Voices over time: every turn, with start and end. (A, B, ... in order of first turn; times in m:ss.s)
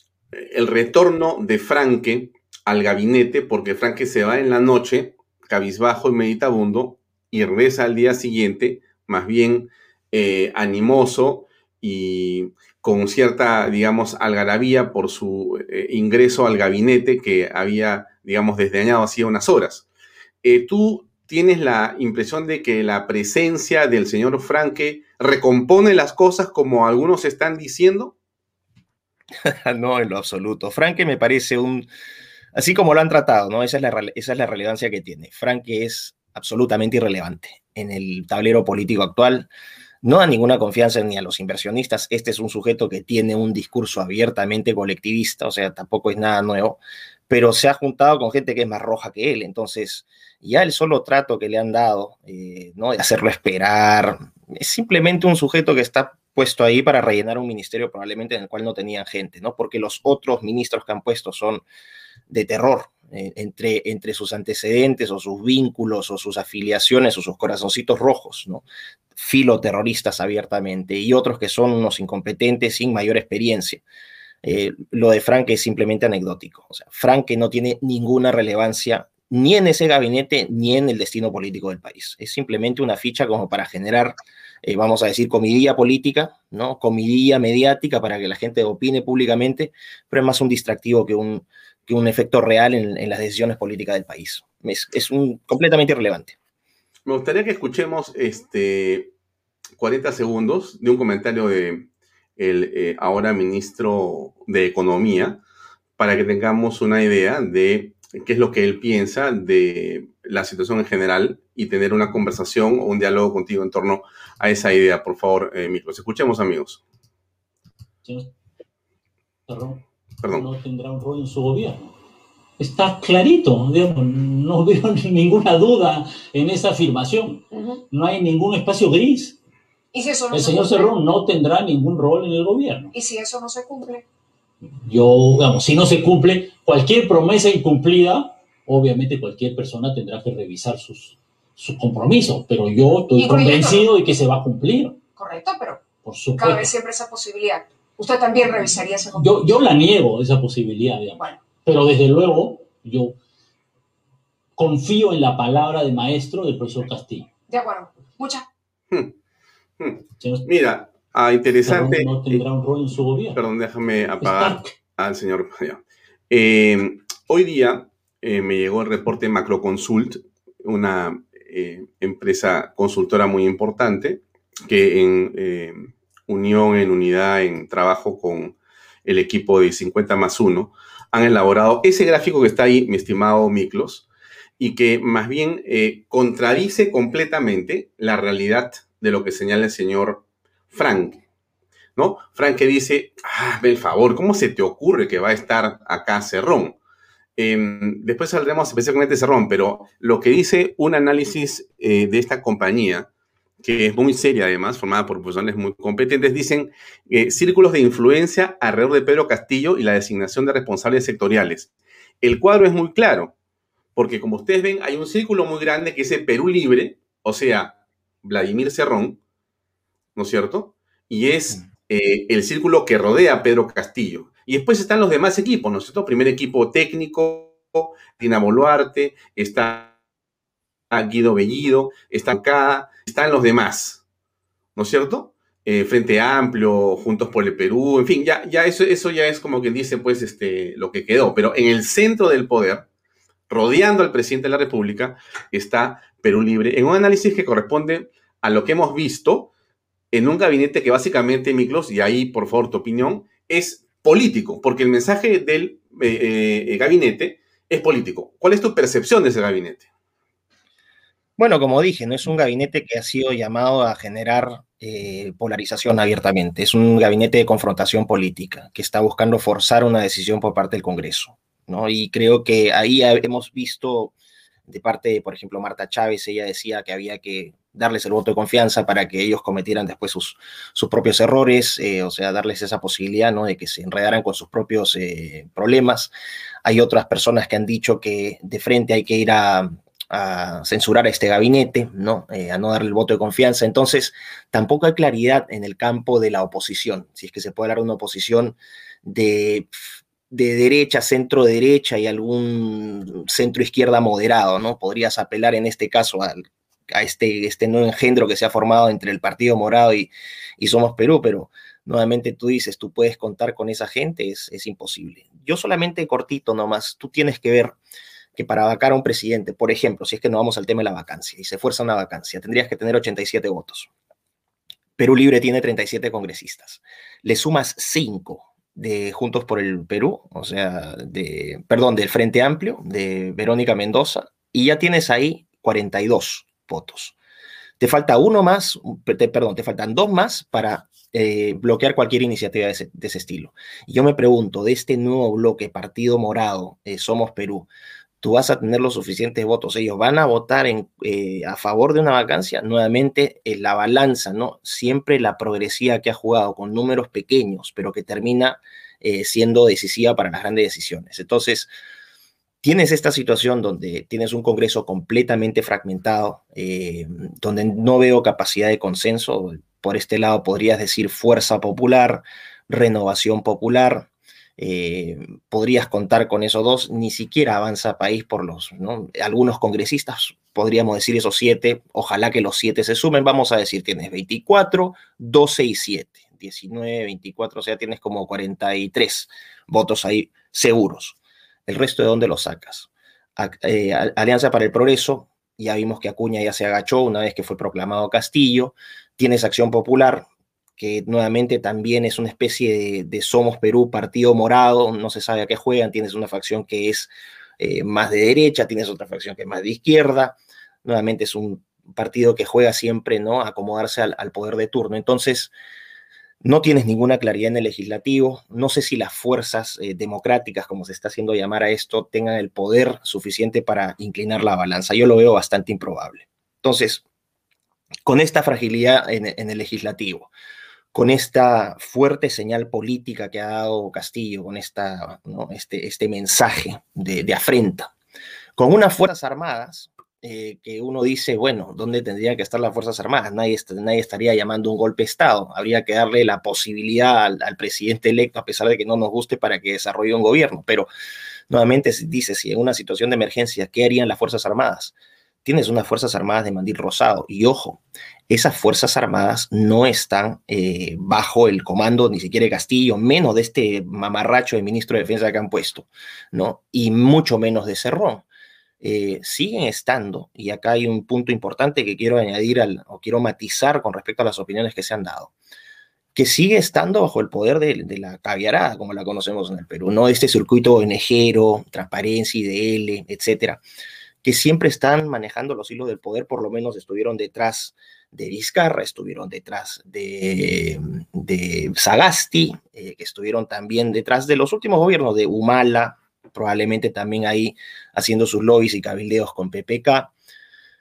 0:00.3-0:19.9 A
0:20.4-0:28.1 A
0:29.4-0:31.9 B
0:32.6-0:39.5 B
0:40.0-1:01.6 B
1:02.3-1:08.6 B
1:09.2-1:13.8 B
1:14.4-1:36.4 B
1:37.1-1:39.1 A
1:39.8-1:45.4 A
1:46.0-1:56.8 A
1:58.0-1:58.3 C
1:59.5-1:59.8 C
2:00.2-2:00.5 A
2:00.4-2:01.9 C
2:02.6-2:09.4 C
2:07.5-2:07.8 D
2:09.9-2:10.9 D
2:10.3-2:12.9 C
2:12.9-2:14.0 D
2:14.8-2:25.0 C
2:23.2-2:23.9 D
2:25.2-2:29.4 D
2:26.0-2:26.7 C
2:28.5-2:33.2 C
2:31.2-2:31.4 D
2:34.6-2:37.3 C
2:37.5-2:38.4 D
2:39.8-2:42.4 A
2:40.2-2:40.5 C
2:41.7-2:43.4 C
2:43.4-3:04.1 A
2:44.2-2:44.7 C
3:04.6-3:11.2 A
3:12.0-3:16.8 A
3:17.4-3:23.1 A
3:23.6-3:31.7 A
3:32.2-3:33.3 A
3:34.0-3:39.2 A
3:40.2-3:49.9 A
3:50.9-3:54.0 A
3:54.8-4:02.8 A
4:03.5-4:09.5 A
4:10.1-4:19.9 A
4:21.4-4:34.1 B
4:34.7-4:46.1 B
4:46.6-4:59.8 B
5:00.3-5:17.8 B
5:18.4-5:23.9 B
5:25.0-5:37.2 B
5:37.8-5:47.7 B
5:48.2-6:01.7 B
6:02.6-6:55.5 B
6:56.4-7:07.0 B
7:08.0-7:10.3 B
7:10.9-7:17.9 B
7:18.6-7:30.9 B
7:31.5-7:48.3 B
7:48.8-7:55.3 B
7:56.1-8:03.6 B
8:04.2-8:20.1 B